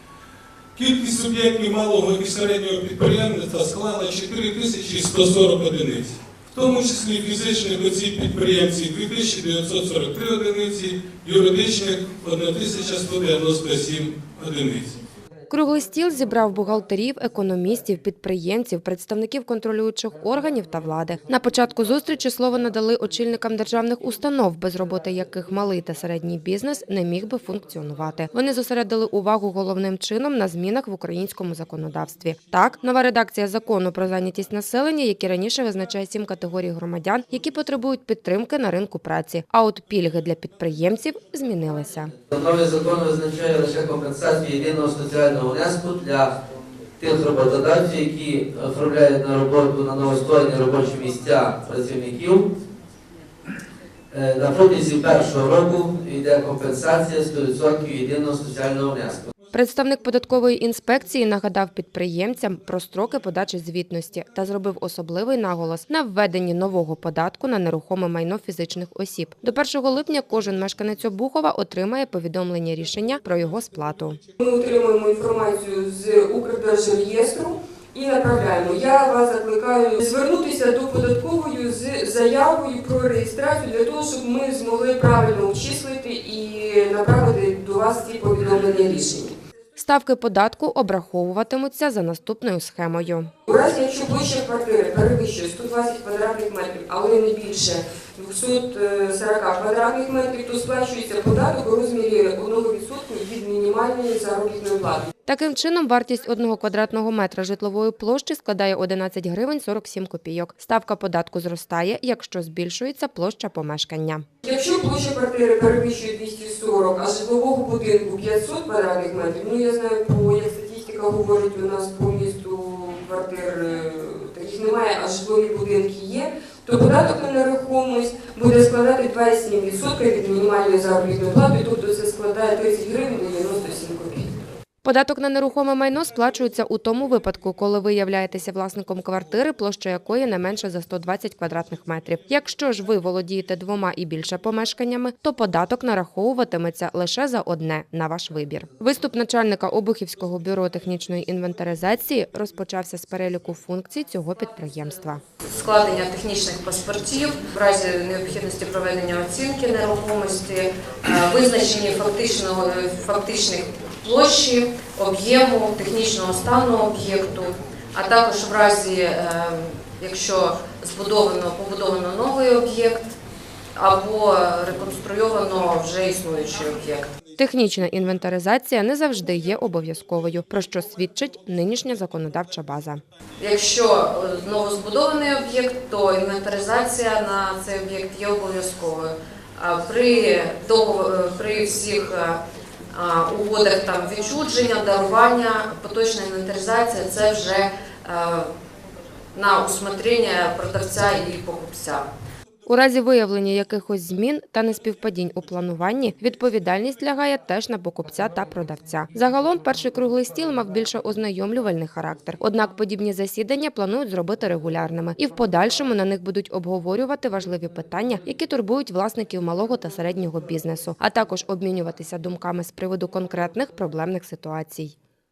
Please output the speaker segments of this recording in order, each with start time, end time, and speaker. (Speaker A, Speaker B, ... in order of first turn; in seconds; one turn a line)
Speaker A: 0.8-14.9
Speaker B: 15.5-42.1
Speaker C: 42.3-46.3
Speaker C: 47.0-52.5
Speaker C: 54.1-59.3
Speaker B: 59.5-74.2
Speaker D: 74.4-89.3
Speaker B: 89.8-93.3
Speaker D: 93.5-105.1
Speaker B: 105.3-114.2
Speaker D: 114.4-134.3
Speaker B: 134.8-155.2
Speaker E: 155.5-173.0
Speaker E: 173.8-177.1
Speaker B: 177.4-183.0
Speaker E: 183.4-192.4
Speaker E: 192.9-198.5
Speaker E: 199.3-202.1
Speaker B: 202.7-224.9